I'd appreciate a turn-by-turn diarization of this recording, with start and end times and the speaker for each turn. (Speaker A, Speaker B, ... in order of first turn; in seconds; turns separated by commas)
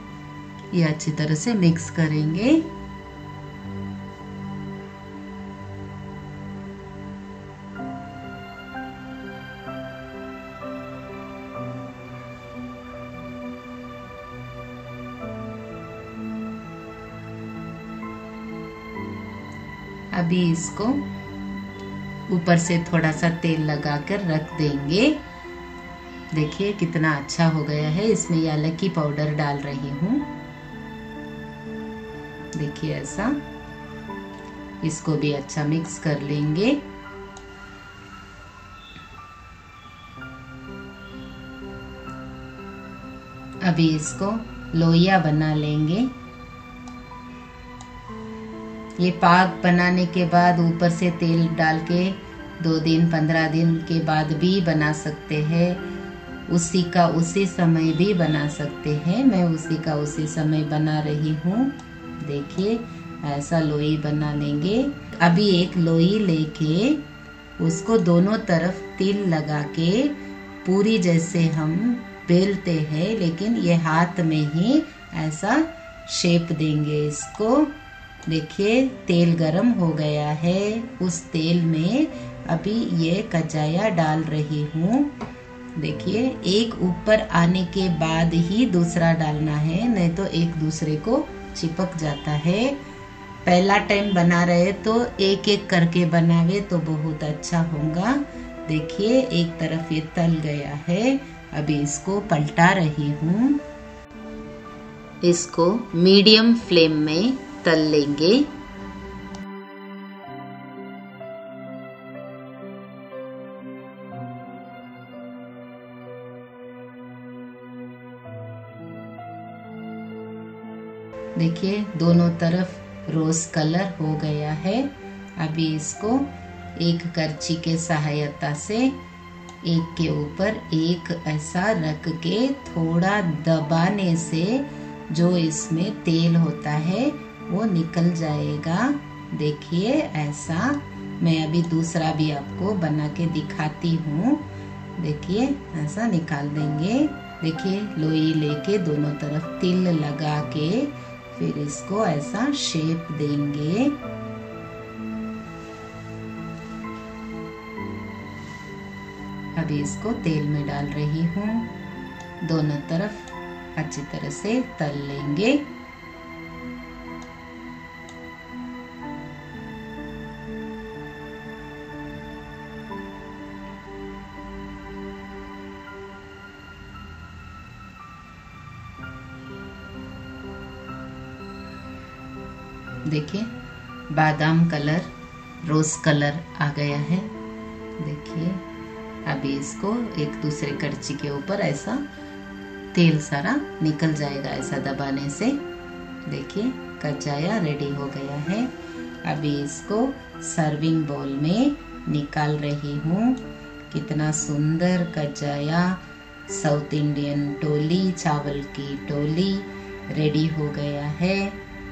Speaker A: 0.7-2.7, Speaker A: 20.1-21.0, Speaker A: 22.3-25.2, Speaker A: 26.3-30.3, Speaker A: 32.5-33.4, Speaker A: 34.8-36.8, Speaker A: 43.6-46.1, Speaker A: 49.0-55.8, Speaker A: 56.5-67.0, Speaker A: 67.6-77.7, Speaker A: 78.2-85.1, Speaker A: 85.8-92.8, Speaker A: 93.4-103.6, Speaker A: 105.2-108.5, Speaker A: 121.3-128.9, Speaker A: 129.6-144.4, Speaker A: 145.0-153.9, Speaker A: 159.6-161.7, Speaker A: 162.4-165.6, Speaker A: 183.1-183.5, Speaker A: 184.1-185.1, Speaker A: 185.6-187.3, Speaker A: 188.0-188.6, Speaker A: 189.2-192.0, Speaker A: 192.9-195.6, Speaker A: 196.2-198.7, Speaker A: 199.2-211.6